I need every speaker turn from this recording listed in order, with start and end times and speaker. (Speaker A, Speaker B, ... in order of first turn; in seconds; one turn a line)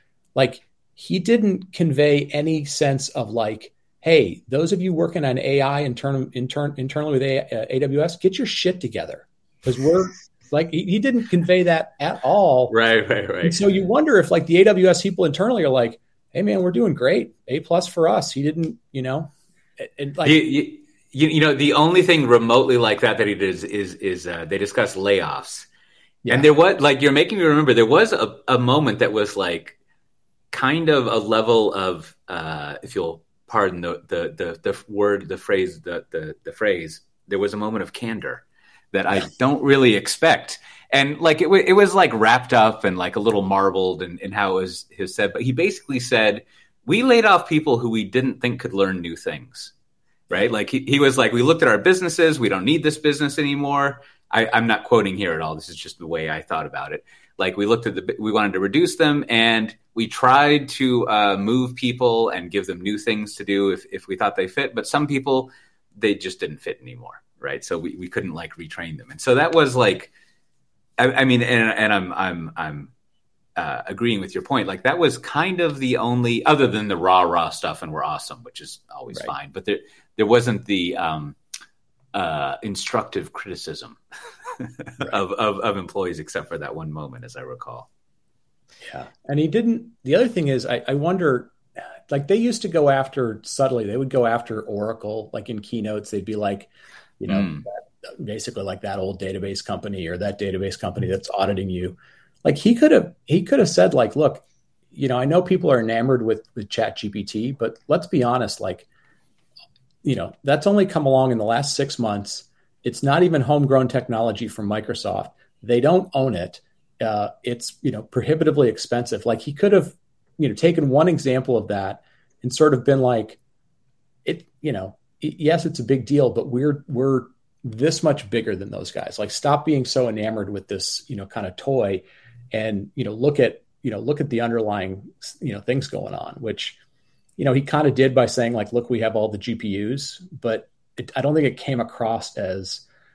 Speaker A: 0.3-12.7
Speaker B: 12.7-13.6
Speaker A: 13.4-20.4
Speaker B: 20.2-25.7
Speaker B: 26.3-29.8
Speaker B: 30.5-49.7
Speaker B: 50.3-70.1
Speaker B: 71.0-72.9
Speaker B: 73.6-81.3
Speaker B: 82.1-84.0
Speaker B: 84.6-87.9
Speaker A: 88.9-91.5
Speaker A: 92.1-108.8
Speaker B: 97.3-97.7
Speaker A: 110.0-123.4
Speaker A: 124.2-136.8
Speaker A: 137.4-142.8